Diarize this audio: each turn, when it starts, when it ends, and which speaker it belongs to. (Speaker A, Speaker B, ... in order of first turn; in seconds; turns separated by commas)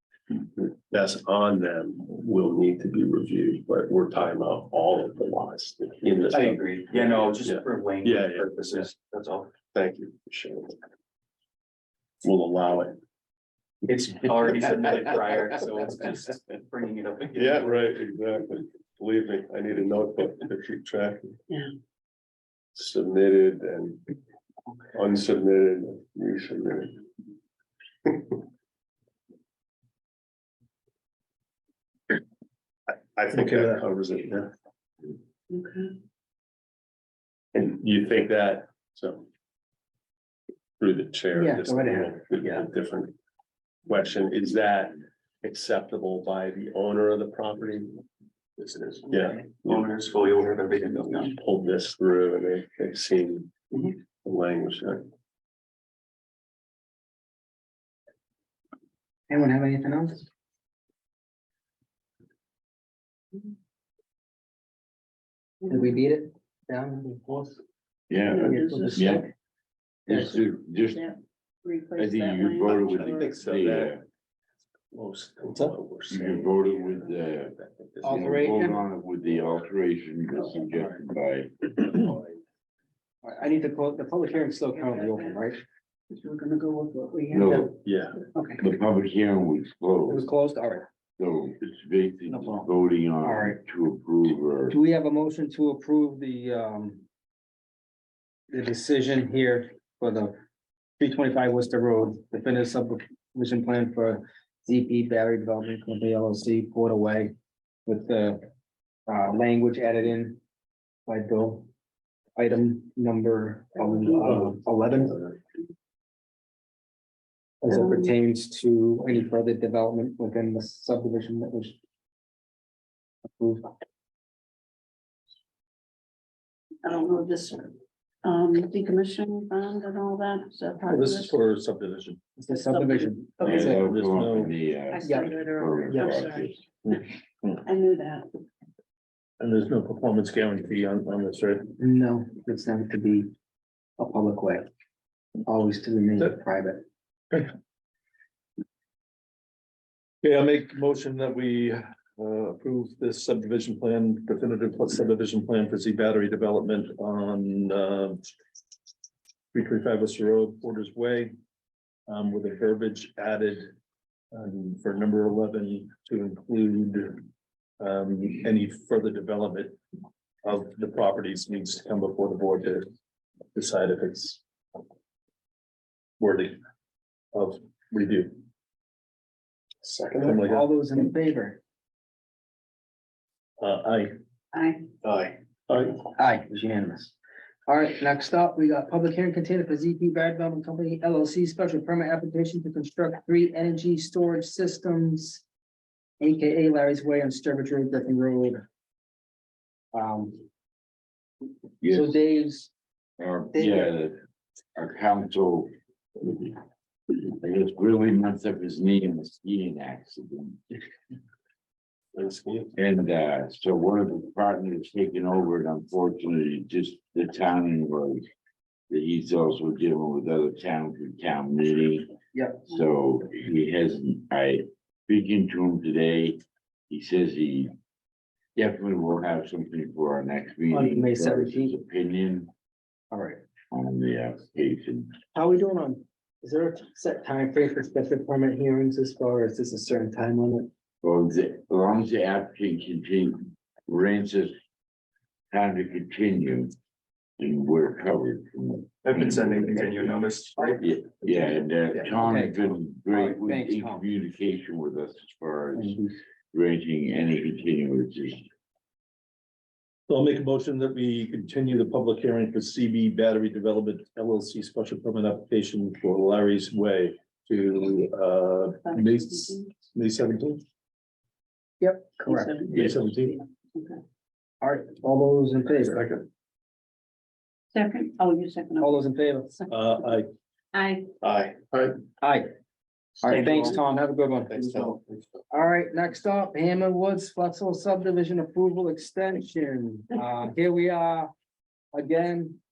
Speaker A: 0.3-8.9, Speaker B: 6.3-9.5, Speaker A: 9.7-10.8, Speaker A: 12.2-13.0, Speaker B: 14.0-17.9, Speaker A: 17.3-21.4, Speaker A: 22.8-24.0, Speaker A: 24.9-27.0, Speaker A: 28.0-28.4, Speaker A: 32.9-34.5, Speaker C: 33.3-33.8, Speaker D: 35.5-36.0, Speaker A: 37.5-39.3, Speaker A: 40.8-43.1, Speaker E: 41.3-42.7, Speaker A: 43.9-48.0, Speaker A: 48.6-49.9, Speaker B: 49.7-51.4, Speaker A: 51.2-55.1, Speaker E: 59.3-60.3, Speaker D: 65.6-65.9, Speaker E: 65.7-67.6, Speaker F: 68.1-69.3, Speaker D: 68.3-69.2, Speaker E: 68.4-69.3, Speaker F: 70.1-71.1, Speaker E: 70.1-70.4, Speaker D: 70.9-73.1, Speaker F: 72.0-74.0, Speaker A: 72.6-74.0, Speaker A: 74.9-78.7, Speaker F: 76.1-82.2, Speaker E: 78.0-78.8, Speaker E: 83.2-85.6, Speaker D: 84.7-85.5, Speaker D: 86.1-87.7, Speaker F: 87.3-87.8, Speaker A: 87.8-88.1, Speaker D: 88.3-88.6, Speaker F: 88.6-90.3, Speaker E: 90.1-90.9, Speaker F: 91.2-94.8, Speaker E: 93.2-93.6, Speaker E: 94.7-97.0, Speaker E: 98.5-100.3, Speaker E: 101.0-107.3, Speaker E: 107.9-108.4, Speaker E: 109.1-110.4, Speaker E: 111.1-111.7, Speaker E: 112.4-115.3, Speaker E: 117.6-121.8, Speaker D: 117.7-118.1, Speaker E: 123.3-123.7, Speaker D: 126.8-127.7, Speaker D: 128.2-131.4, Speaker C: 130.9-132.2, Speaker E: 132.4-133.9, Speaker D: 132.7-133.8, Speaker F: 133.4-136.6, Speaker C: 133.4-134.6, Speaker D: 134.9-137.0, Speaker E: 135.0-135.3, Speaker D: 137.6-138.3, Speaker C: 139.4-141.7, Speaker E: 141.8-143.3, Speaker E: 144.0-144.7, Speaker E: 145.5-146.8, Speaker C: 150.2-158.3, Speaker C: 159.5-161.3, Speaker C: 162.1-163.7, Speaker C: 164.3-167.2, Speaker C: 167.8-169.8, Speaker C: 170.4-172.9, Speaker C: 173.5-174.4, Speaker C: 176.2-176.6, Speaker C: 177.3-178.4, Speaker A: 179.8-180.4, Speaker C: 180.2-180.7, Speaker E: 180.2-181.6, Speaker C: 183.6-184.1, Speaker D: 184.5-184.9, Speaker A: 185.0-186.0, Speaker E: 186.2-187.1, Speaker E: 187.7-195.4, Speaker E: 196.2-198.6, Speaker E: 199.9-200.4, Speaker F: 201.8-202.2, Speaker E: 201.8-202.7, Speaker F: 203.2-204.2, Speaker E: 203.5-203.9, Speaker F: 204.8-205.7, Speaker F: 206.2-206.6, Speaker F: 207.1-210.8, Speaker A: 212.1-212.7, Speaker F: 212.8-218.2, Speaker F: 218.9-222.1, Speaker E: 222.3-222.6, Speaker F: 222.7-227.7, Speaker F: 228.6-232.5, Speaker E: 230.7-231.7, Speaker E: 233.1-233.4, Speaker F: 233.7-235.2, Speaker E: 235.3-240.7, Speaker F: 241.0-244.6, Speaker F: 245.5-246.7, Speaker F: 247.4-258.4, Speaker B: 249.1-250.8, Speaker E: 252.1-254.1, Speaker E: 255.8-256.2, Speaker C: 260.1-270.6, Speaker D: 268.8-269.7, Speaker E: 271.8-272.5, Speaker D: 272.2-274.0, Speaker C: 272.7-273.4, Speaker E: 274.6-276.1, Speaker A: 275.7-276.3, Speaker D: 277.7-279.7, Speaker E: 278.8-279.5, Speaker C: 279.7-280.3, Speaker D: 280.7-281.1, Speaker A: 281.2-282.0, Speaker E: 282.2-282.5, Speaker E: 283.2-284.6, Speaker A: 284.5-285.2, Speaker E: 285.5-291.3, Speaker E: 291.9-292.6